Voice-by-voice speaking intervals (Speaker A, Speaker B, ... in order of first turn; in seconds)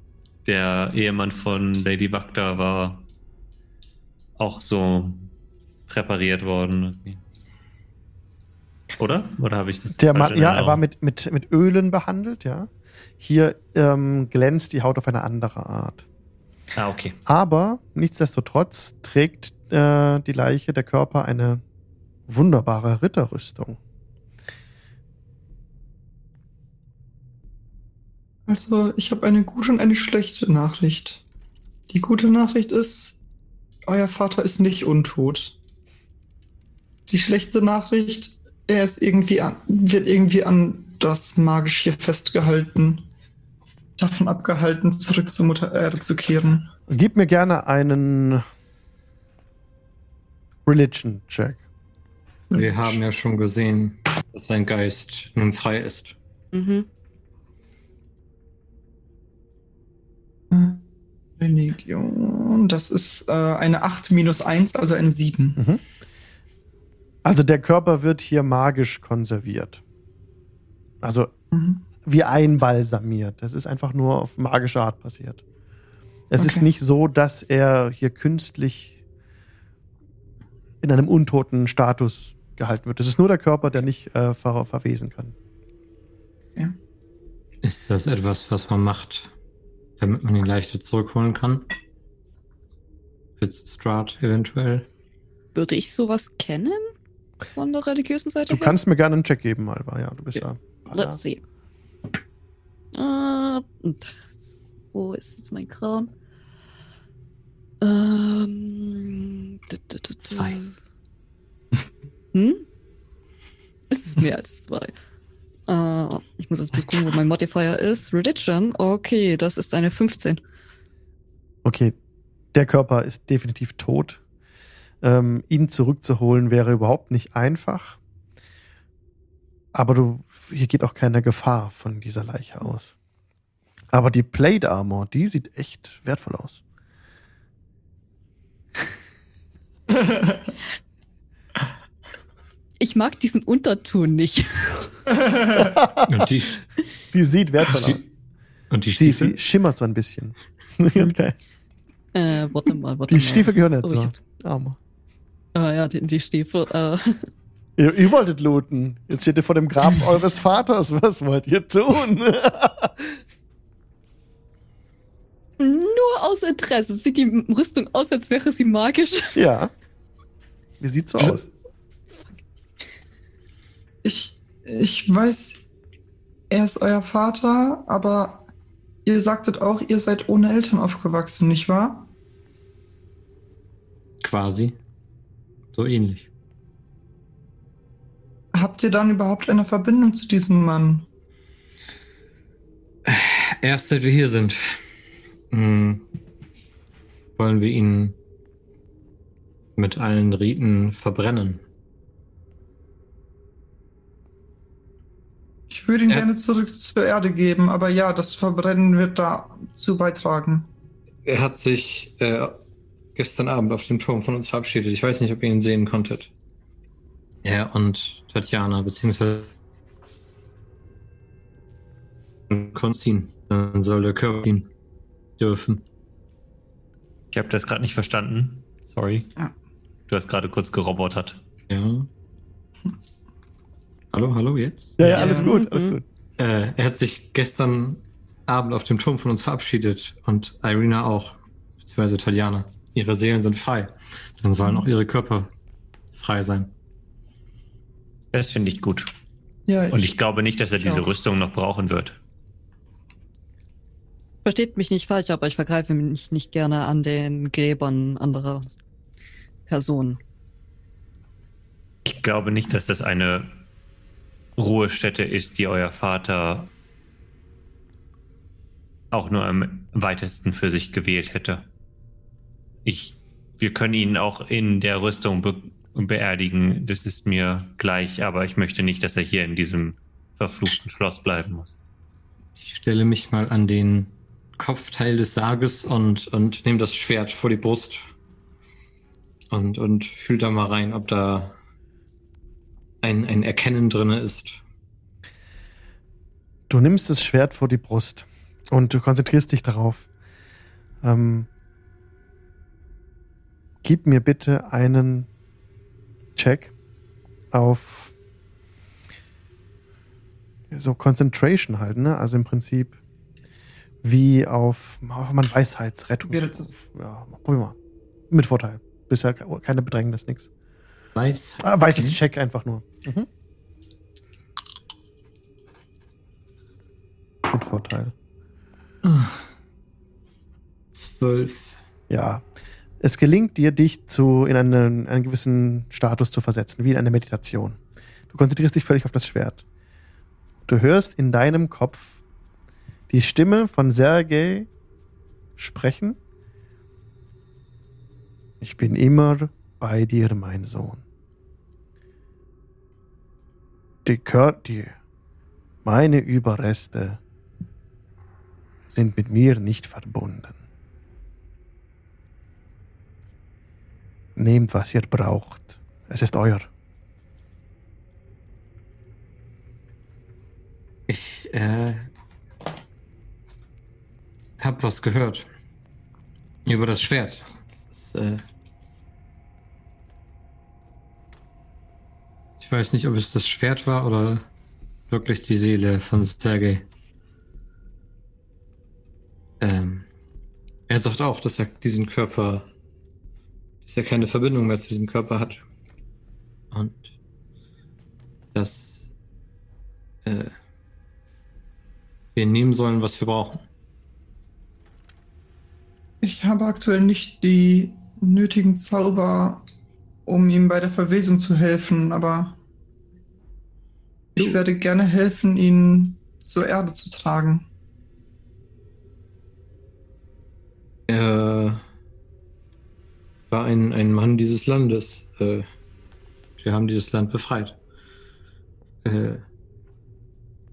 Speaker A: 0.5-3.1, 4.4-5.3, 5.9-7.2, 9.0-10.8, 16.8-17.2, 227.3-229.3, 230.1-231.4, 248.3-249.1, 249.9-252.2, 262.1-263.7, 264.6-266.7, 269.1-271.7, 272.9-281.8
Speaker B: 10.0-16.1, 17.3-21.6, 22.3-23.8, 46.9-48.4, 50.7-51.6, 65.6-65.8, 67.2-69.8, 71.0-71.3, 72.0-75.4, 76.3-79.0, 80.8-85.3, 98.5-101.2, 121.7-122.0, 122.5-124.2, 125.0-128.0, 129.7-132.9, 133.9-136.6, 145.6-146.3, 147.1-148.1, 148.9-151.4, 153.1-154.8, 157.8-163.2, 169.3-169.7, 170.8-171.5, 235.0-236.1, 296.7-300.1, 301.0-301.5, 303.8-305.3, 306.4-306.7, 307.5-308.1, 310.7-313.0, 314.0-317.8, 318.3-320.5, 321.6-323.3, 327.5-328.1, 332.1-332.4, 333.0-337.8, 338.3-339.6, 340.7-342.2, 343.1-344.7, 345.6-346.2, 348.6-351.0, 354.1-354.9, 355.8-357.2, 358.9-360.6, 364.4-366.7
Speaker C: 28.5-31.2, 31.9-33.2, 33.9-35.6, 37.1-43.1, 44.0-46.7, 60.5-60.9, 61.4-65.6, 71.5-71.8, 76.4-76.7, 140.0-140.4, 145.2-145.7, 174.0-175.6, 176.5-178.5, 179.1-182.1, 188.5-191.1, 205.7-210.7, 235.2-235.6, 249.7-250.2, 316.3-316.7, 406.2-409.6, 410.3-412.6, 414.4-417.7
Speaker D: 52.5-56.1, 87.6-89.3, 90.0-91.7, 93.4-94.9, 146.1-146.6, 147.7-148.0, 148.7-149.4, 184.2-184.8, 185.7-186.3, 193.1-194.8, 195.5-196.1, 197.4-198.2, 199.8-201.6, 211.3-212.6, 213.2-216.3, 217.4-219.5, 222.5-224.7, 225.4-225.8, 231.7-232.1, 234.1-235.4, 236.4-245.5, 246.1-246.7, 282.6-288.0, 289.5-291.6, 293.0-294.6, 321.1-322.2, 329.0-329.4, 330.9-331.7, 371.1-372.1, 374.6-375.5, 376.7-378.4, 382.6-384.4, 385.1-386.9, 389.6-390.1, 390.9-392.7, 393.8-395.6, 396.7-397.1, 398.5-399.1, 400.2-400.5, 402.4-403.6, 421.1-421.8, 423.5-425.7, 426.6-427.8, 429.0-429.4
Speaker E: 56.5-56.9, 95.5-96.9, 97.5-98.8, 100.9-101.4, 102.9-104.2, 104.9-106.1, 107.8-110.8, 112.3-112.6, 113.9-114.9, 115.7-120.4, 142.8-145.0, 152.1-154.1, 155.6-157.3, 165.6-169.4, 235.2-236.0, 254.4-258.7, 259.7-260.2